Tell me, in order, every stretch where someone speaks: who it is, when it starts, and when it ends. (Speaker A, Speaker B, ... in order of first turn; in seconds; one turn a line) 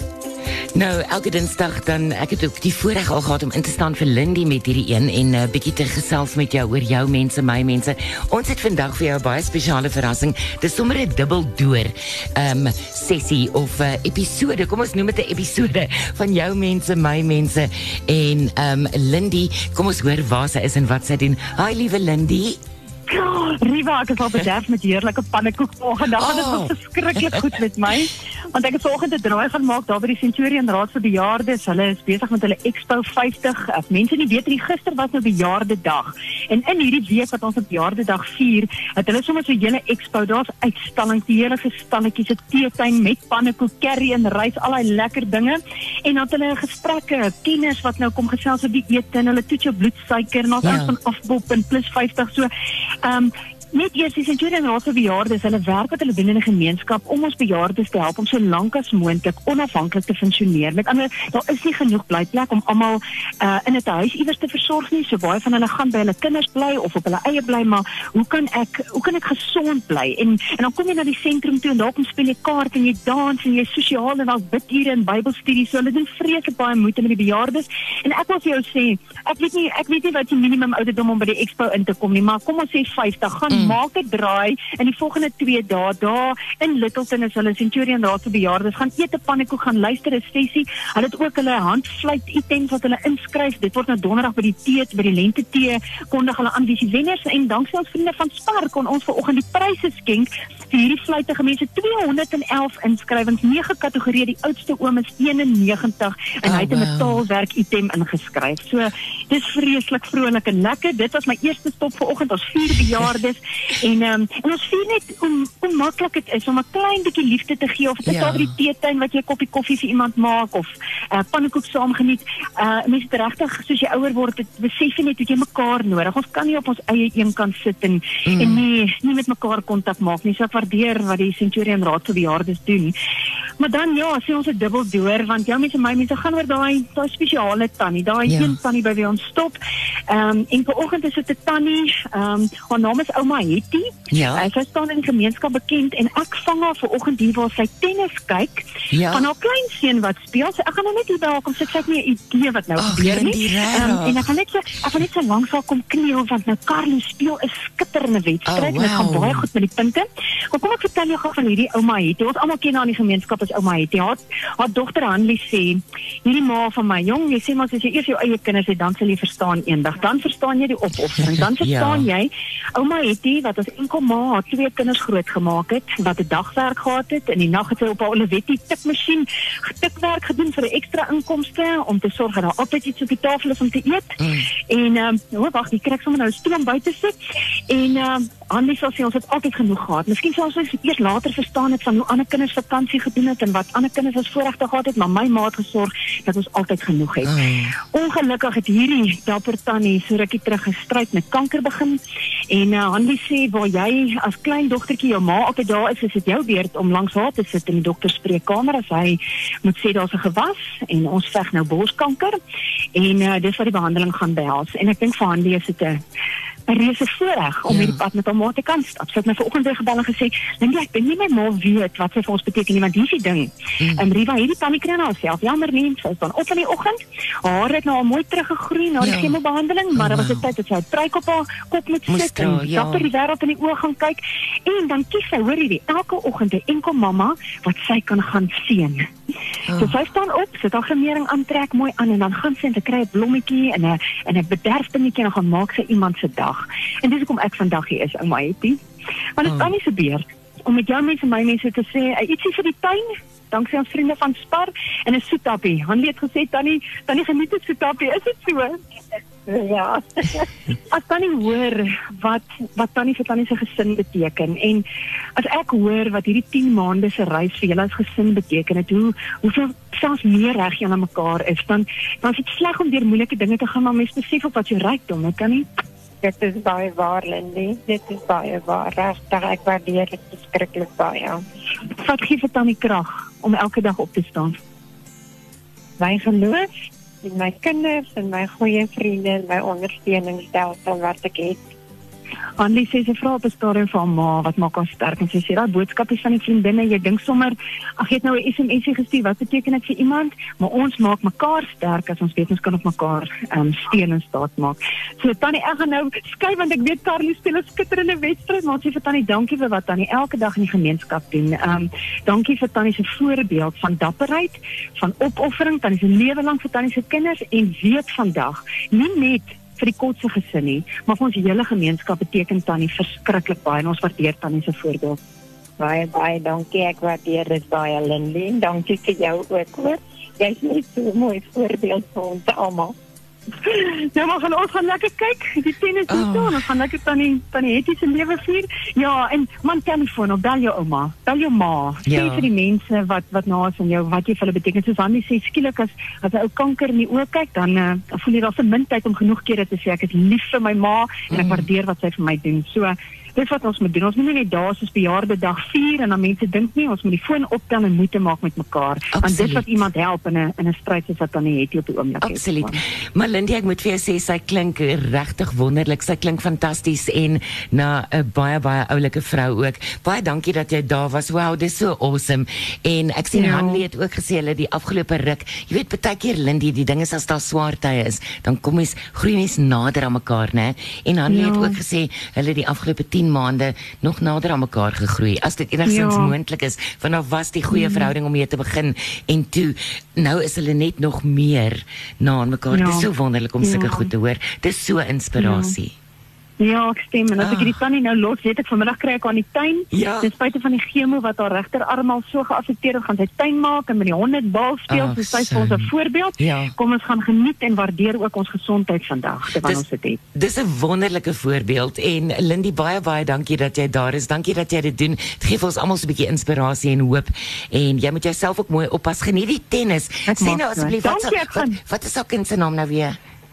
Speaker A: 0.8-22.6
Speaker B: 23.1-52.5
Speaker A: 26.1-27.6
Speaker A: 50.6-50.9
Speaker B: 53.0-132.9
Speaker A: 83.5-83.8
Speaker A: 106.4-107.2
Speaker A: 118.1-118.5
Speaker A: 128.3-128.6
Speaker B: 133.6-139.6
Speaker A: 138.3-138.6
Speaker B: 140.1-187.2
Speaker A: 144.1-144.5
Speaker A: 148.9-149.2
Speaker A: 152.8-154.2
Speaker A: 158.5-159.5
Speaker A: 171.2-172.1
Speaker A: 184.2-184.5
Speaker B: 187.7-197.3
Speaker A: 197.2-197.8
Speaker B: 197.8-212.4
Speaker B: 212.9-216.0
Speaker B: 216.7-239.1
Speaker A: 217.7-218.0
Speaker A: 223.8-224.1
Speaker A: 229.0-229.3
Speaker A: 229.9-230.5
Speaker A: 232.1-233.1
Speaker A: 239.7-240.0
Speaker B: 239.8-248.8
Speaker B: 249.4-258.8
Speaker A: 249.4-249.7
Speaker C: 259.5-260.5
Speaker B: 260.9-264.9
Speaker B: 265.4-275.7
Speaker C: 276.2-281.4
Speaker B: 282.0-284.6
Speaker C: 286.0-286.7
Speaker C: 287.2-291.6
Speaker B: 292.6-325.2
Speaker C: 325.8-332.9
Speaker B: 333.6-362.8
Speaker A: 336.1-336.6
Speaker A: 342.1-342.5
Speaker A: 351.3-351.7
Speaker A: 359.1-359.7
Speaker A: 362.2-395.9
Speaker B: 373.3-373.8
Speaker B: 381.3-381.8
Speaker B: 385.9-386.3
Speaker B: 387.7-388.1
Speaker B: 392.7-393.1
Speaker B: 393.6-394.1
Speaker B: 395.4-395.8
Speaker B: 396.6-410.2
Speaker A: 397.4-397.8
Speaker A: 399.9-400.3
Speaker A: 404.9-406.8
Speaker A: 409.5-409.8
Speaker A: 410.3-423.2
Speaker B: 420.3-421.8